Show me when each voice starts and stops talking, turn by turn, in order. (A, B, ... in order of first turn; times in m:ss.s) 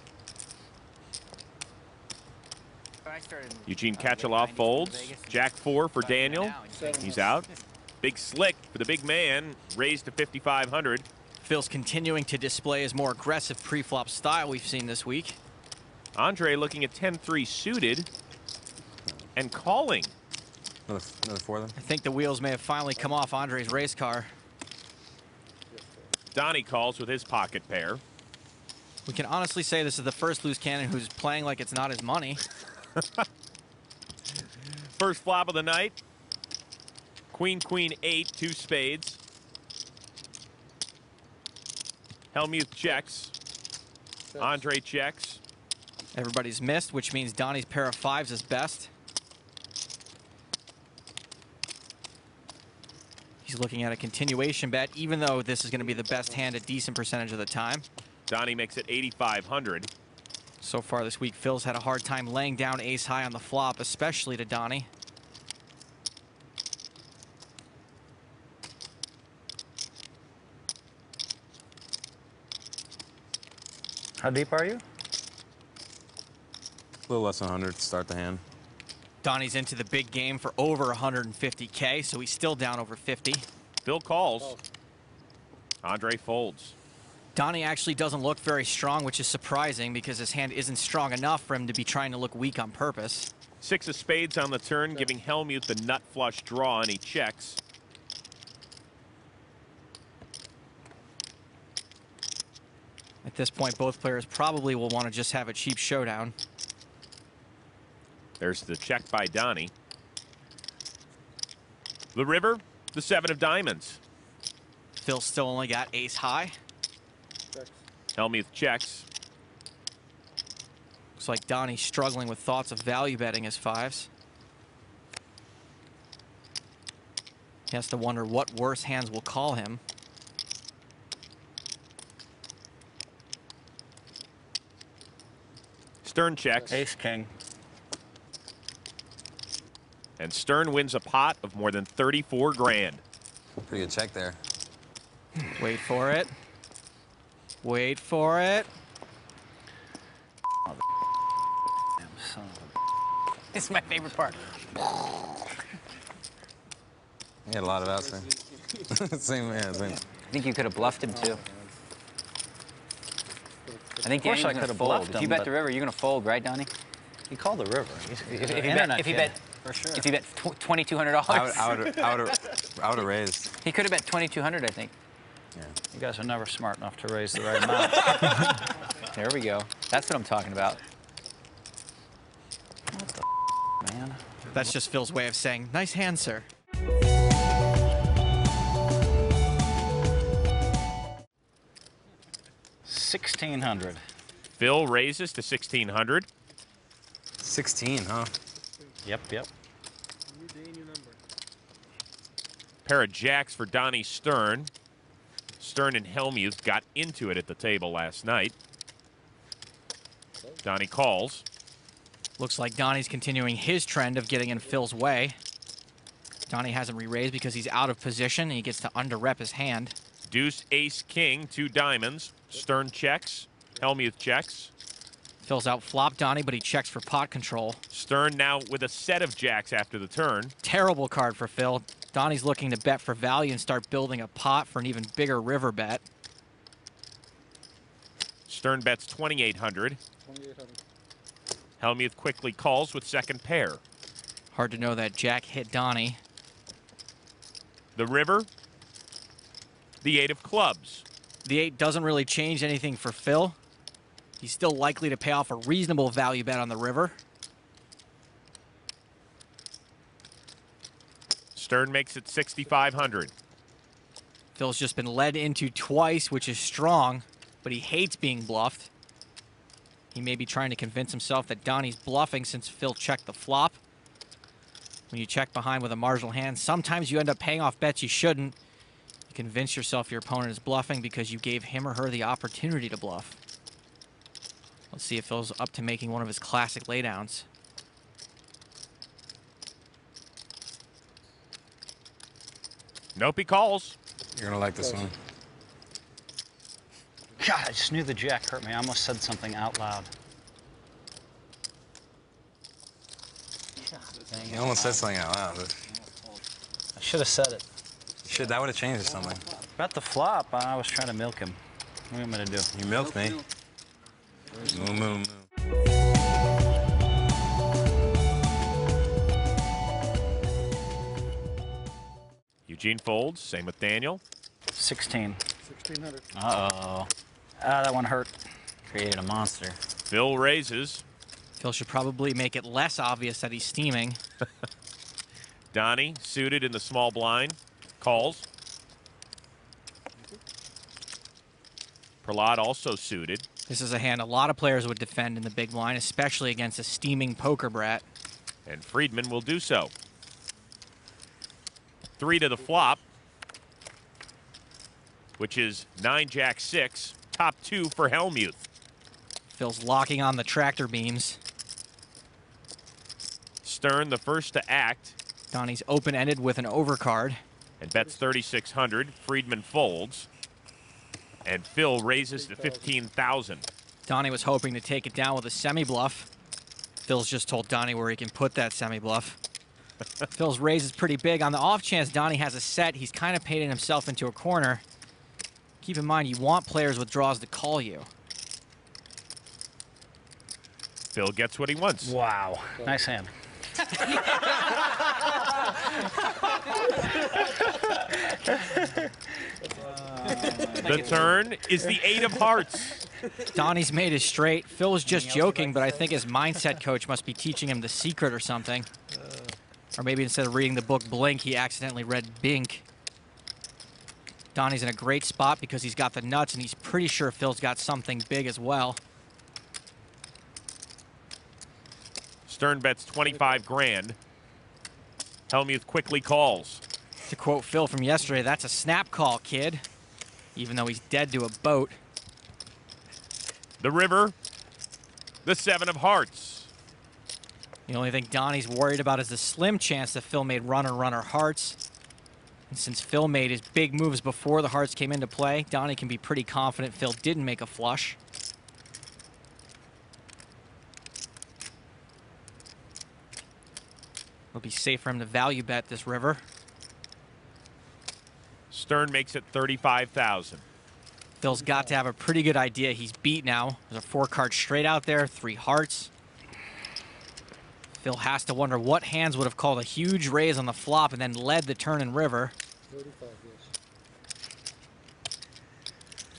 0:03.0-0:07.6 A
0:03.7-0:07.5 B
0:06.7-0:07.2 C
0:08.0-0:11.1 B
0:11.4-0:15.4 D
0:16.2-0:18.1 B
0:19.4-0:20.1 B
0:20.9-0:21.7 E
0:21.8-0:24.3 D
0:25.7-0:26.1 C
0:26.3-0:28.0 B
0:29.1-0:32.4 D
0:35.0-0:36.0 B
0:37.3-0:39.2 B
0:42.3-0:43.3 B
0:44.3-0:44.6 C
0:44.4-0:45.4 B
0:46.1-0:48.9 D
0:53.4-0:57.9 D
0:55.8-0:56.2 C
0:58.3-0:59.9 B
1:00.6-1:04.9 D
1:14.2-1:14.8 F
1:17.1-1:18.4 E
1:19.2-1:23.5 D
1:23.8-1:24.6 B
1:25.8-1:26.7 B
1:27.4-1:33.3 D
1:33.6-1:37.6 B
1:43.2-1:46.4 D
1:48.4-1:49.7 B
1:52.1-1:54.0 B
1:55.0-1:56.6 D
1:57.5-1:57.8 C
1:58.2-1:59.1 B
2:01.2-2:04.1 D
2:07.7-2:09.8 D
2:16.0-2:16.9 B
2:16.7-2:17.3 F
2:20.2-2:23.0 B
2:23.7-2:24.4 E
2:25.6-2:26.3 D
2:27.6-2:28.7 D
2:32.0-2:32.7 F
2:33.5-2:34.5 A
2:37.5-2:40.0 E
2:40.1-2:41.4 A
2:43.7-2:44.1 C
2:44.0-2:46.7 A
2:44.1-2:45.6 F
2:47.3-2:49.4 F
2:48.3-2:52.2 A
2:51.3-2:53.5 E
2:53.6-2:54.9 A
2:55.9-2:58.6 F
2:59.0-3:00.8 A
3:02.9-3:03.2 F
3:03.8-3:04.2 F
3:04.5-3:06.5 D
3:12.9-3:14.0 F
3:14.6-3:16.3 B
3:17.4-3:18.3 E
3:19.1-3:19.5 F
3:20.4-3:21.1 C
3:22.8-3:24.7 B
3:25.6-3:28.6 B
3:30.6-3:31.4 B
3:32.4-3:35.4 D
3:36.5-3:40.0 D
3:40.3-3:44.7 B
3:45.4-3:47.8 D
3:47.9-3:50.6 B
3:50.6-3:56.0 D
3:58.5-4:00.0 B
4:00.3-4:00.8 C
4:01.8-4:03.8 B
4:04.5-4:06.2 D
4:08.0-4:08.5 B
4:10.0-4:11.0 B
4:11.4-4:13.6 D
4:14.4-4:17.2 D
4:21.6-4:23.3 B
4:24.6-4:28.9 D
4:30.1-4:33.8 D
4:35.1-4:38.6 D
4:39.3-4:43.4 D
4:44.9-4:47.5 D
4:53.2-4:54.0 B
4:54.4-4:55.1 E
4:54.8-4:55.1 C
4:57.4-5:00.1 F
5:04.3-5:05.0 A
5:04.4-5:05.7 E
5:07.0-5:07.6 F
5:08.2-5:09.5 E
5:09.8-5:11.6 F
5:12.1-5:12.7 F
5:12.7-5:13.4 E
5:14.6-5:15.4 E
5:22.7-5:24.2 B
5:24.8-5:25.4 F
5:25.7-5:26.2 C
5:26.4-5:27.1 A
5:27.6-5:28.3 F
5:28.9-5:29.8 A
5:30.1-5:31.0 B
5:31.6-5:34.2 D
5:35.7-5:38.4 B
5:42.2-5:43.4 B
5:43.7-5:48.0 D
5:48.7-5:49.9 B
5:52.2-5:53.0 B
5:55.4-5:58.7 B
5:59.5-6:01.4 D
6:03.6-6:05.2 B
6:05.5-6:07.4 D
6:07.8-6:10.3 B
6:11.4-6:13.7 B
6:12.3-6:13.1 C
6:14.1-6:16.3 D
6:17.0-6:19.4 D
6:20.3-6:24.8 D
6:25.8-6:28.1 D
6:31.1-6:32.2 B
6:32.0-6:33.3 F
6:36.8-6:39.1 F
6:40.4-6:41.2 A
6:40.8-6:43.0 B
6:43.4-6:48.9 D
6:50.0-6:52.8 D
6:54.5-6:59.0 D
7:02.5-7:04.2 B
7:05.5-7:06.8 B
7:07.3-7:09.8 D
7:10.6-7:12.0 D
7:13.8-7:14.4 B
7:15.4-7:16.7 B
7:17.9-7:21.8 D
7:22.7-7:28.2 D
7:34.5-7:36.4 D
7:38.7-7:40.6 B
7:41.4-7:46.1 D
7:41.5-7:41.9 C
7:48.0-7:52.5 D
7:52.9-7:53.7 C